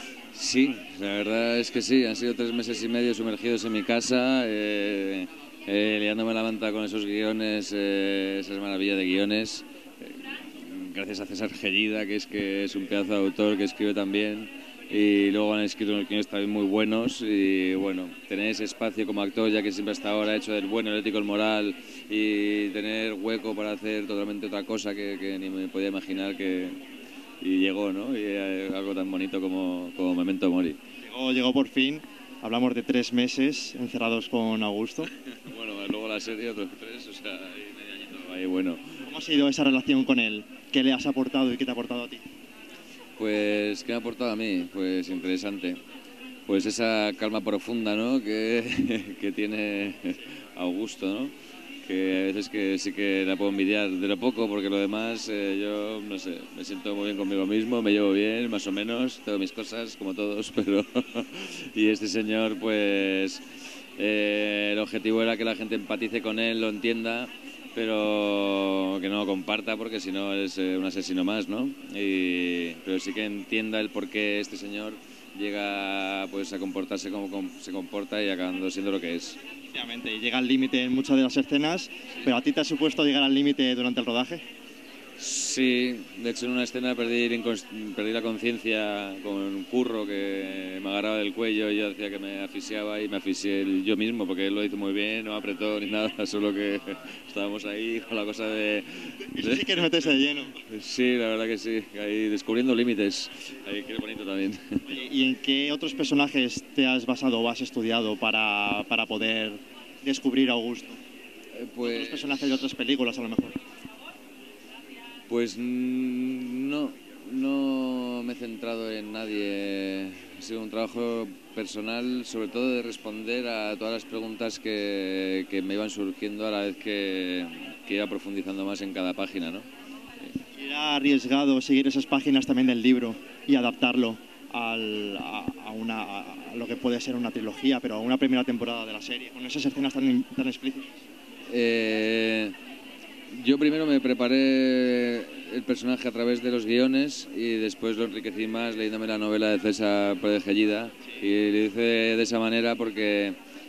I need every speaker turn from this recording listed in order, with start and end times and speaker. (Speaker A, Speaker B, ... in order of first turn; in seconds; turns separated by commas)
Speaker A: 0.3-26.8, Speaker A: 27.4-30.8, Speaker B: 31.0-35.1, Speaker A: 35.2-39.0, Speaker B: 39.0-42.3, Speaker A: 43.2-45.8, Speaker A: 46.5-51.3, Speaker A: 51.9-63.4, Speaker A: 64.0-79.4, Speaker B: 79.7-84.4, Speaker A: 85.2-104.9, Speaker B: 99.2-100.6, Speaker B: 104.9-111.0, Speaker A: 111.5-112.5, Speaker B: 111.8-113.6, Speaker A: 115.3-129.7, Speaker B: 130.5-140.9, Speaker A: 141.5-142.6, Speaker A: 143.3-153.4